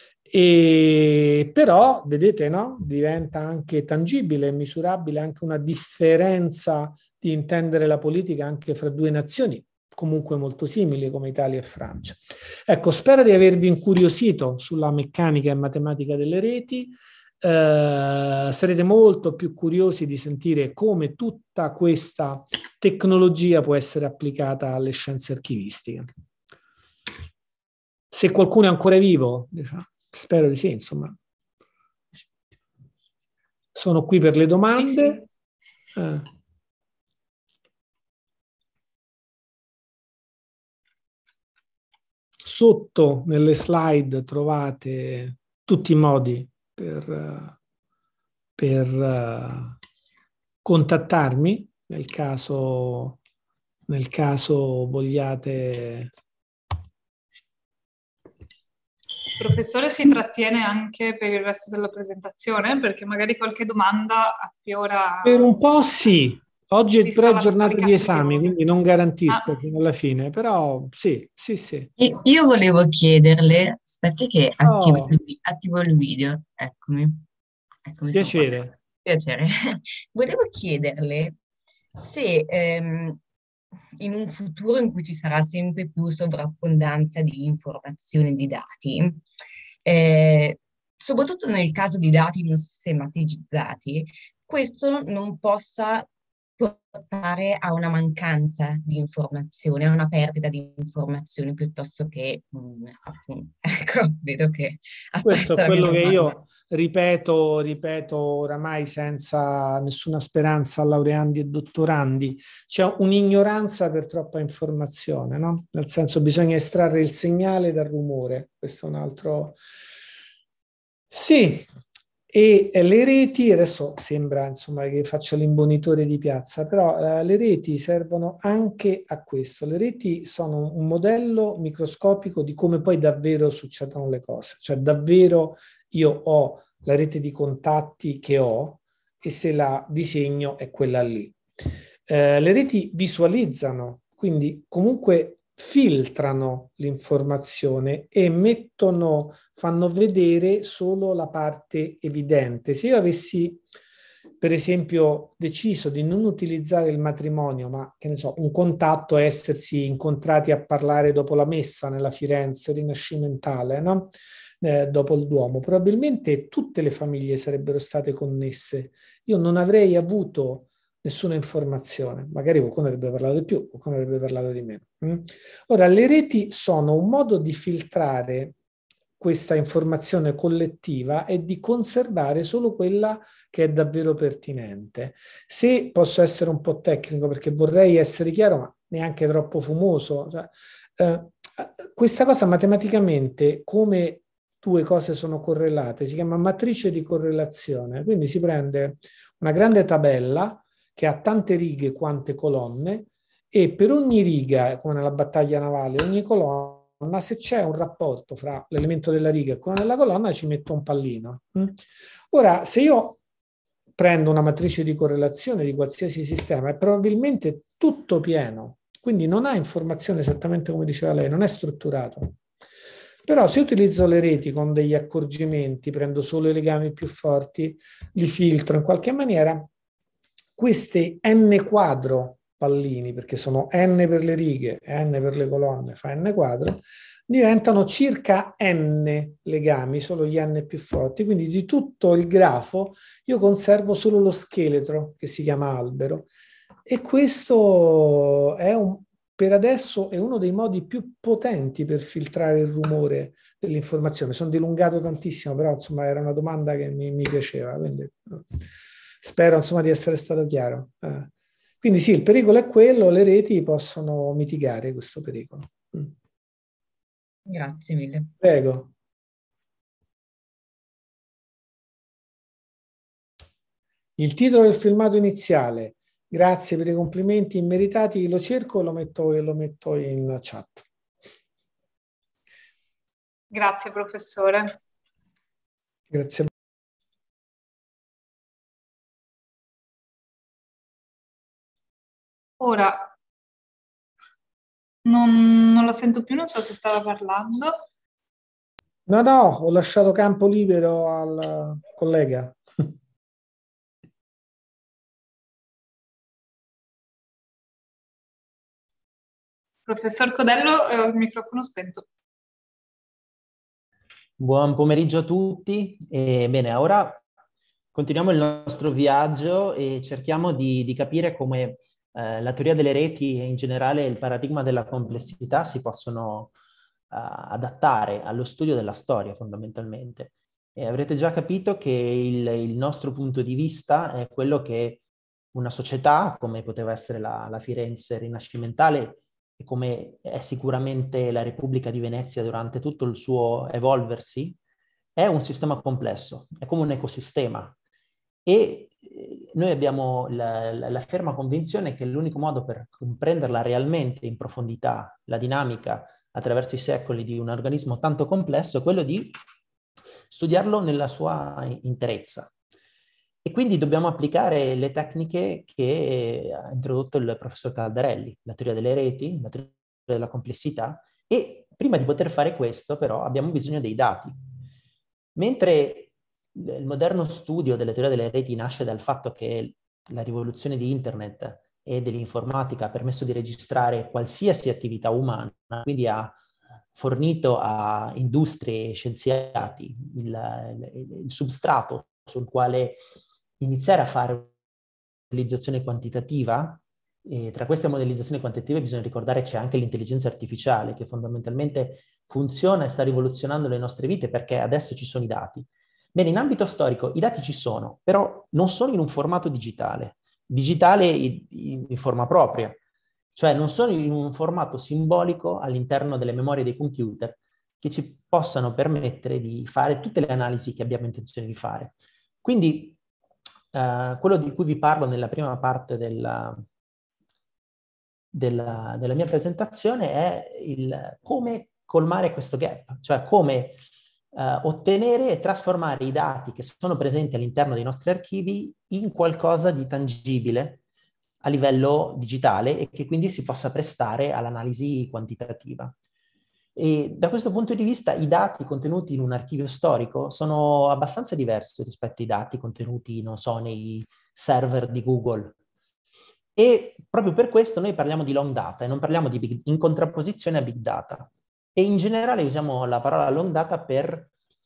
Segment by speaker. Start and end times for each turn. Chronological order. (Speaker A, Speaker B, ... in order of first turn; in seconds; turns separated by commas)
Speaker A: 0.3-26.1, Speaker A: 28.1-31.2, Speaker A: 33.8-35.2, Speaker A: 36.0-36.3, Speaker A: 42.4-47.5, Speaker A: 48.6-49.8, Speaker A: 50.6-53.2, Speaker A: 53.9-56.1, Speaker B: 59.4-65.5, Speaker A: 65.2-71.9, Speaker B: 67.0-68.5, Speaker C: 72.0-77.2, Speaker A: 74.6-75.2, Speaker C: 77.9-81.4, Speaker A: 78.1-78.7, Speaker C: 82.0-83.2, Speaker C: 84.0-89.2, Speaker C: 89.8-106.4, Speaker A: 105.2-119.6, Speaker A: 121.1-121.7, Speaker A: 122.3-141.4, Speaker A: 142.1-153.6, Speaker A: 154.4-178.6, Speaker A: 179.2-213.2, Speaker A: 214.0-222.4, Speaker A: 223.2-229.7, Speaker A: 230.6-246.3, Speaker A: 246.9-258.6, Speaker A: 259.2-266.1, Speaker C: 267.5-268.3, Speaker A: 268.4-268.9, Speaker A: 274.2-280.9, Speaker B: 283.5-284.8, Speaker A: 286.1-286.5, Speaker B: 292.6-293.1, Speaker B: 295.1-297.8, Speaker A: 299.1-302.9, Speaker B: 309.9-312.1, Speaker D: 314.4-317.2, Speaker D: 317.9-326.5, Speaker D: 327.1-335.0, Speaker D: 335.5-344.6, Speaker D: 345.2-347.8, Speaker D: 348.4-359.4, Speaker D: 360.3-362.5, Speaker D: 363.4-374.4, Speaker D: 375.4-386.4, Speaker D: 386.9-393.0, Speaker D: 393.6-394.5, Speaker D: 395.3-412.8, Speaker D: 413.4-423.0, Speaker D: 423.7-426.6, Speaker D: 428.3-433.8, Speaker D: 434.3-440.8, Speaker D: 441.4-445.9, Speaker D: 446.8-455.6, Speaker D: 456.6-464.3